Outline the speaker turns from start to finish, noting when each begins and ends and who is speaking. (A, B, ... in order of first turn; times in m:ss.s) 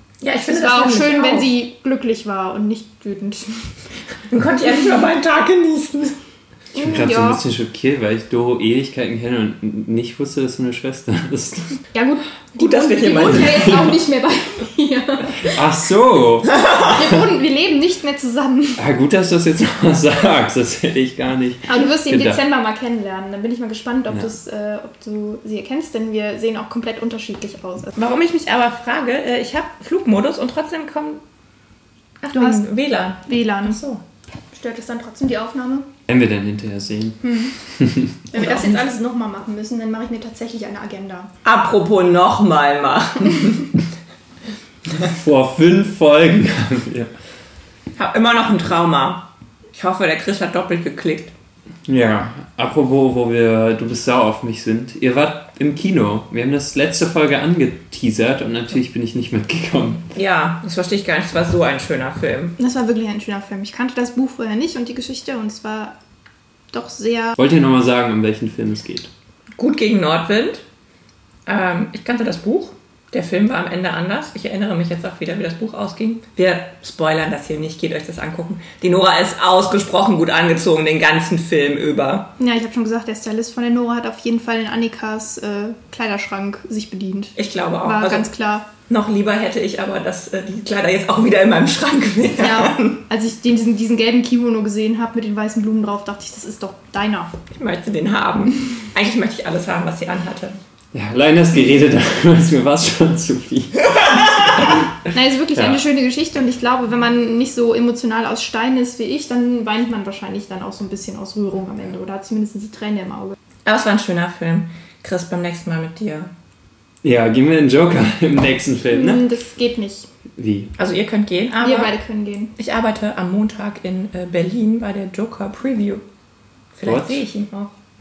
0:00.2-0:01.5 A
0:00.4-0:03.8 B
0:04.3-0:06.2 A
0:06.7-0:07.4 B
0:06.8-0:11.8 C
0:11.9-0:15.6 B
0:12.6-0:14.0 A
0:15.4-0:17.1 C
0:16.8-0:18.8 B
0:18.8-0:22.4 C
0:21.7-0:27.9 B
0:28.0-0:31.2 A
0:32.2-0:34.0 A
0:32.3-0:32.7 B
0:33.2-0:33.8 B
0:34.5-0:35.9 B
0:36.1-0:38.2 C
0:37.2-0:37.6 B
0:38.3-0:41.3 B
0:38.3-0:38.9 A
0:41.4-0:43.8 A
0:45.0-0:47.1 C
0:48.0-0:51.3 A
0:51.9-1:00.0 C
1:00.1-1:02.6 A
1:02.6-1:05.9 B
1:06.7-1:07.4 B
1:07.4-1:09.1 C
1:09.6-1:10.6 A
1:11.5-1:22.3 A
1:22.4-1:28.7 B
1:27.4-1:28.3 A
1:28.9-1:33.0 A
1:32.4-1:37.3 B
1:37.5-1:40.6 A
1:40.9-1:44.8 C
1:45.1-1:53.4 B
1:45.5-1:45.8 C
1:53.6-1:56.3 A
1:57.0-1:59.3 C
1:58.9-2:00.1 B
2:00.4-2:00.8 C
2:00.8-2:02.0 A
2:01.5-2:02.5 B
2:02.6-2:06.0 A
2:06.8-2:07.7 A
2:06.8-2:07.2 C